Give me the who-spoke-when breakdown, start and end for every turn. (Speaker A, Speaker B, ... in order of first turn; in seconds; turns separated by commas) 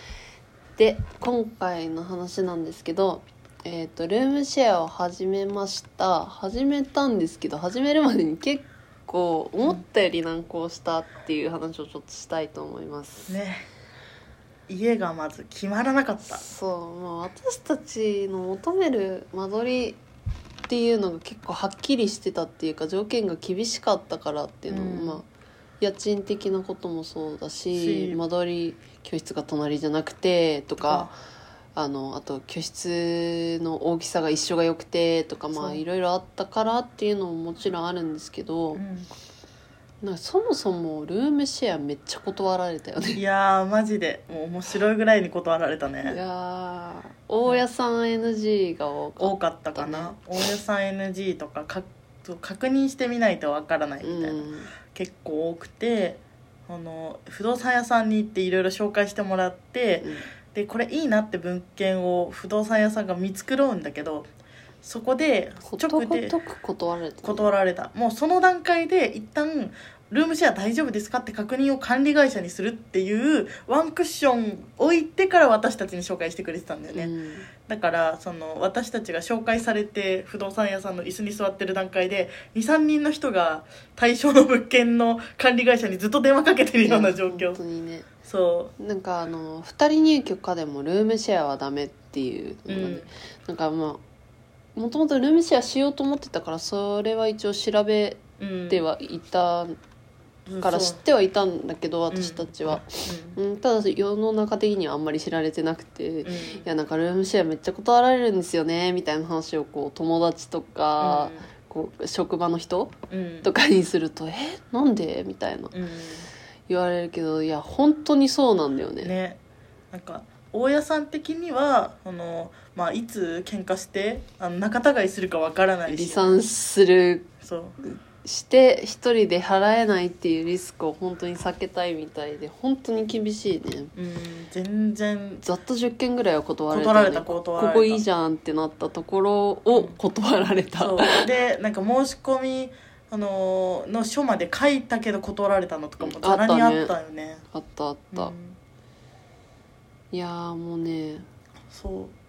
Speaker A: 0.8-13.3, Speaker B: 13.3-13.6, Speaker B: 14.7-16.4, Speaker A: 16.2-20.0, Speaker A: 20.7-25.3, Speaker B: 24.7-25.2, Speaker A: 25.8-31.1, Speaker B: 27.7-28.2, Speaker B: 30.8-31.1, Speaker A: 31.7-38.8, Speaker B: 35.5-35.8, Speaker B: 38.7-39.1, Speaker A: 40.0-43.2, Speaker B: 43.1-46.2, Speaker A: 46.0-50.2, Speaker B: 49.2-64.3, Speaker A: 54.0-54.7, Speaker A: 60.0-60.3, Speaker B: 64.8-66.3, Speaker A: 65.7-67.5, Speaker B: 67.2-77.1, Speaker A: 76.9-77.5, Speaker B: 77.7-87.6, Speaker A: 86.8-88.1, Speaker B: 88.2-88.7, Speaker A: 88.8-94.0, Speaker B: 92.7-93.1, Speaker A: 94.8-99.7, Speaker B: 98.4-98.8, Speaker B: 100.5-101.0, Speaker A: 100.6-115.8, Speaker B: 102.1-103.4, Speaker B: 106.2-106.7, Speaker B: 111.0-111.5, Speaker B: 113.1-113.5, Speaker B: 115.7-116.3, Speaker A: 116.7-119.1, Speaker B: 119.0-119.4, Speaker B: 119.9-126.4, Speaker A: 125.9-127.3, Speaker B: 127.4-127.8, Speaker A: 127.8-133.9, Speaker B: 133.9-135.4, Speaker A: 135.4-141.2, Speaker B: 136.7-138.0, Speaker B: 140.8-147.4, Speaker A: 146.0-146.9, Speaker A: 147.5-148.3, Speaker B: 148.1-148.6, Speaker A: 150.1-151.2, Speaker B: 151.7-152.1